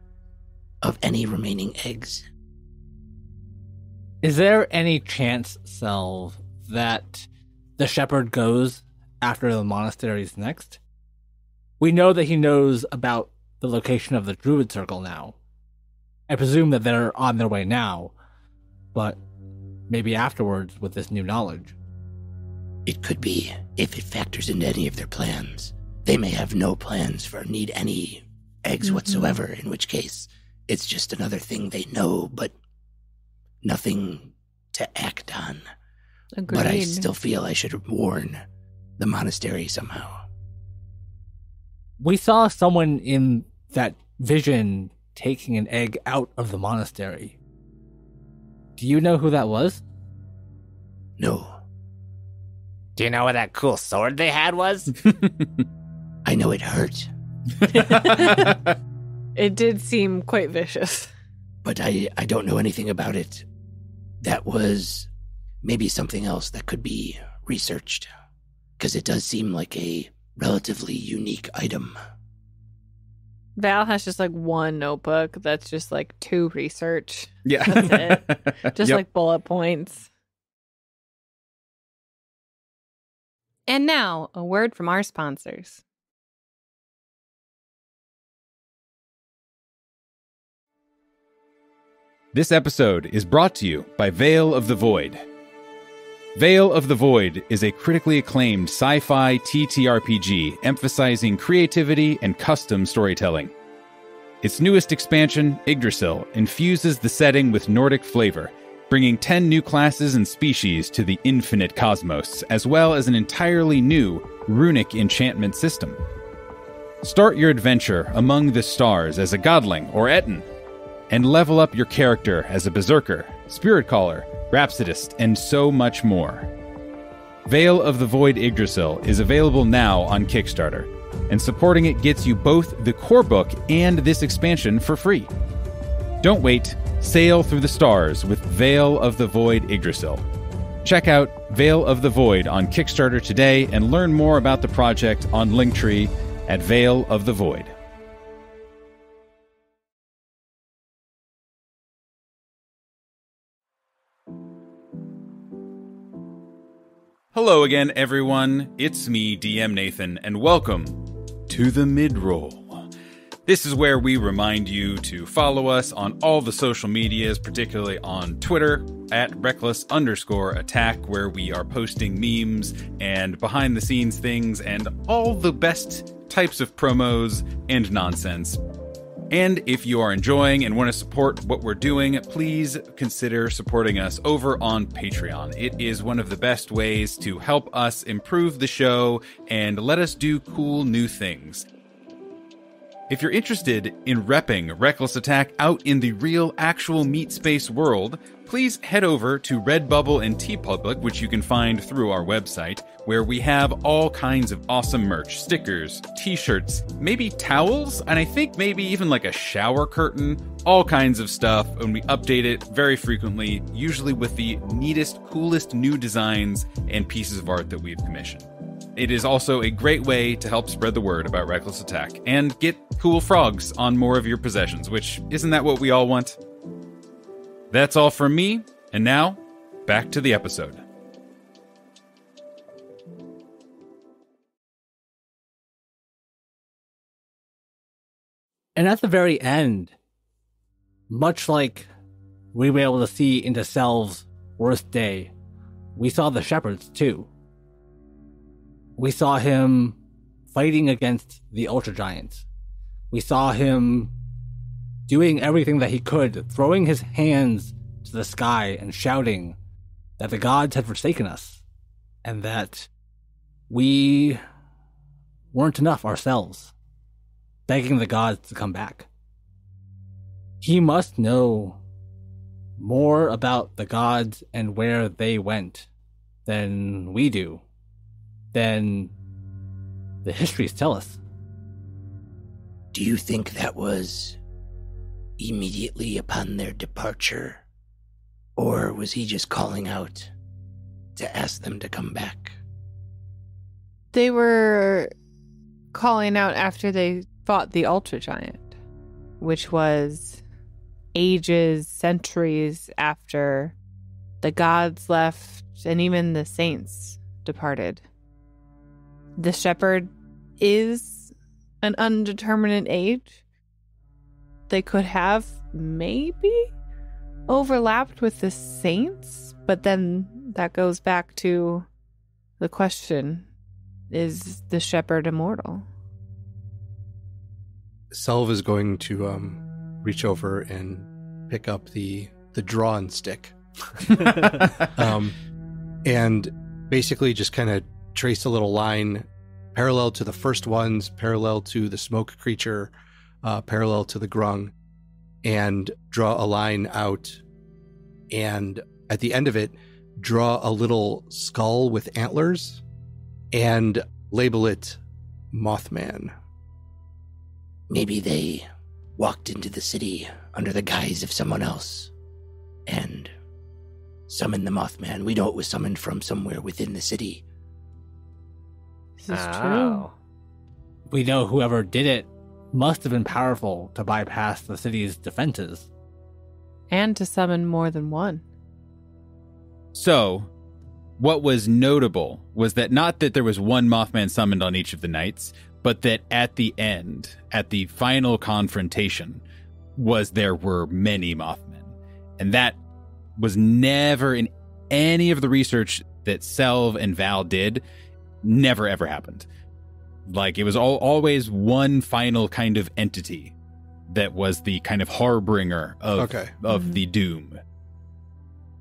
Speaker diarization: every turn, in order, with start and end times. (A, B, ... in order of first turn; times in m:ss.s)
0:00.8-0:02.3 A
0:04.2-0:10.8 B
0:11.8-0:15.4 B
0:16.3-0:18.1 B
0:18.9-0:19.2 B
0:19.9-0:21.8 B
0:22.9-0:32.5 A
0:28.8-0:29.4 C
0:33.6-0:35.6 A
0:36.4-0:37.1 C
0:36.5-0:38.4 A
0:39.0-0:40.2 A
0:42.0-0:47.4 B
0:48.8-0:49.8 B
0:51.2-0:51.5 A
0:53.0-0:54.9 D
0:55.0-0:55.6 E
0:56.2-0:57.1 A
0:57.8-0:58.6 C
0:57.8-0:58.6 E
0:59.4-1:01.1 C
1:01.6-1:03.4 A
1:04.2-1:05.1 A
1:05.6-1:08.1 A
1:08.8-1:12.0 A
1:13.6-1:20.1 C
1:17.4-1:19.0 E
1:23.7-1:25.8 C
1:32.3-1:35.2 E
1:36.4-1:43.5 E
1:44.4-1:56.0 E
1:57.0-2:00.5 E
2:01.1-2:06.5 E
2:07.5-2:15.3 E
2:16.2-2:20.2 E
2:20.8-2:27.7 E
2:37.3-2:42.9 E
2:43.5-2:58.6 E
2:59.3-3:11.7 E
3:13.1-3:38.4 E
3:39.0-3:46.4 E
3:47.7-3:50.8 E
3:58.8-3:59.9 B
4:01.1-4:01.9 B
4:02.5-4:05.3 B
4:06.0-4:07.3 B
4:09.0-4:10.0 B
4:10.5-4:12.5 B
4:13.1-4:14.1 B
4:15.1-4:19.6 B
4:20.2-4:21.6 B
4:22.2-4:22.9 B
4:23.7-4:24.4 B
4:25.5-4:26.7 B
4:27.7-4:29.1 B
4:30.6-4:31.8 B
4:32.8-4:35.9 B
4:36.5-4:37.6 B
4:38.5-4:39.1 B
4:40.2-4:41.2 B
4:42.9-4:44.4 A
4:45.4-4:47.6 A
4:48.6-4:50.3 A
4:51.2-4:52.6 A
4:54.1-4:55.1 C
4:55.9-4:58.7 C
4:59.4-5:00.4 C
5:01.1-5:03.8 C
5:04.4-5:08.0 C
5:09.4-5:13.4 C
5:14.7-5:16.7 C
5:17.5-5:21.9 C
5:22.6-5:23.5 C
5:24.1-5:25.9 C
5:28.1-5:35.4 F
5:36.0-5:42.9 F
5:43.4-5:44.7 F
5:45.4-5:47.4 F
5:48.3-5:52.8 F
5:53.5-5:55.0 F
5:55.5-5:56.3 F
5:57.9-6:02.1 A
6:02.9-6:03.3 A
6:04.3-6:07.4 A
6:09.2-6:10.1 C
6:09.3-6:10.1 D
6:11.1-6:15.9 B
6:16.9-6:18.4 C
6:19.9-6:20.5 E
6:21.2-6:29.4 E
6:30.0-6:32.8 E
6:33.4-6:37.8 E
6:38.4-6:39.5 E
6:40.3-6:43.5 E
6:44.1-6:47.6 E
6:46.2-6:46.5 F